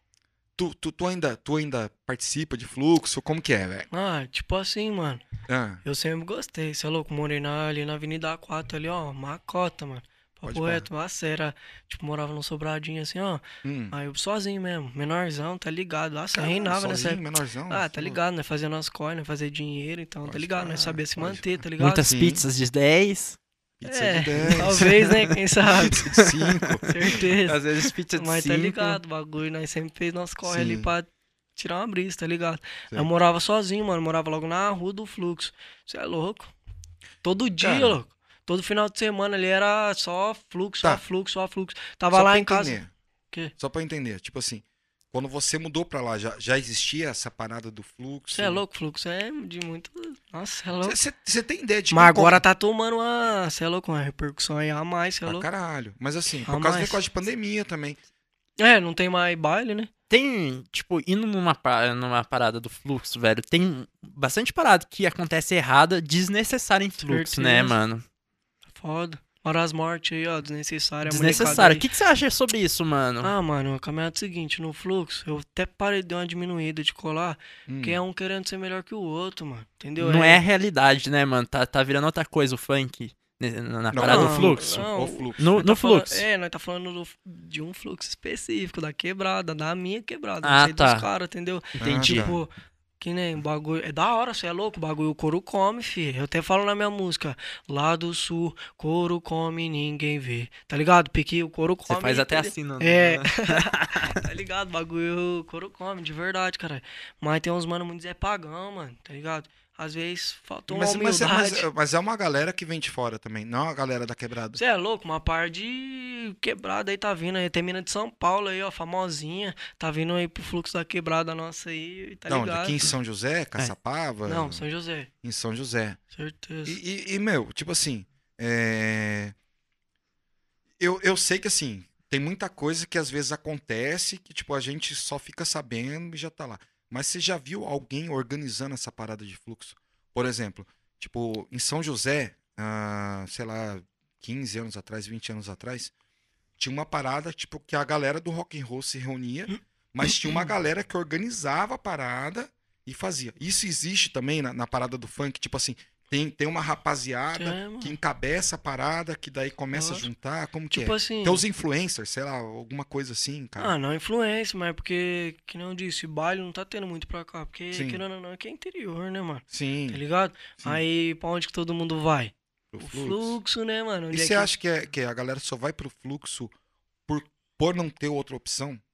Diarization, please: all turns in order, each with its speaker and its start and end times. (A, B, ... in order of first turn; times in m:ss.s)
0:00.6-0:03.9 A
0:03.9-0:05.2 B
0:05.5-0:05.8 A
0:05.8-0:22.1 B
0:10.4-0:10.9 A
0:13.6-0:13.9 A
0:16.3-0:18.2 A
0:20.2-0:21.5 A
0:21.8-0:23.4 C
0:22.0-0:22.4 A
0:23.8-0:25.1 A
0:23.9-0:26.1 B
0:24.6-0:25.3 C
0:25.7-0:27.2 A
0:26.2-0:29.0 C
0:26.9-0:36.5 B
0:30.4-0:30.9 A
0:37.2-0:42.8 B
0:37.6-0:38.0 A
0:42.1-0:42.9 A
0:43.6-0:48.6 A
0:48.3-0:51.0 B
0:50.8-0:52.4 A
0:51.9-0:55.5 B
0:55.3-0:58.0 A
0:56.5-0:57.0 B
0:58.6-0:59.9 B
1:00.1-1:08.0 C
1:07.0-1:07.8 B
1:08.8-1:11.9 B
1:11.0-1:13.3 C
1:13.2-1:20.4 B
1:17.7-1:18.0 A
1:20.0-1:24.8 C
1:23.9-1:25.6 A
1:24.0-1:51.7 B
1:25.4-1:26.2 C
1:30.4-1:31.1 C
1:31.8-1:32.4 C
1:31.8-1:32.4 A
1:41.9-1:44.2 C
1:50.7-1:54.6 A
1:54.6-2:02.9 B
2:02.3-2:04.6 A
2:04.3-2:05.1 B
2:05.2-2:06.0 A
2:06.1-2:06.8 B
2:06.7-2:09.4 A
2:10.8-2:25.9 A
2:26.6-2:43.8 A
2:29.5-2:30.5 B
2:37.4-2:38.0 B
2:39.7-2:40.1 B
2:40.7-2:41.4 B
2:43.6-2:54.5 B
2:47.7-2:48.0 A
2:49.5-2:50.0 A
2:52.7-2:53.4 A
2:54.1-2:56.5 A
2:57.1-2:58.8 A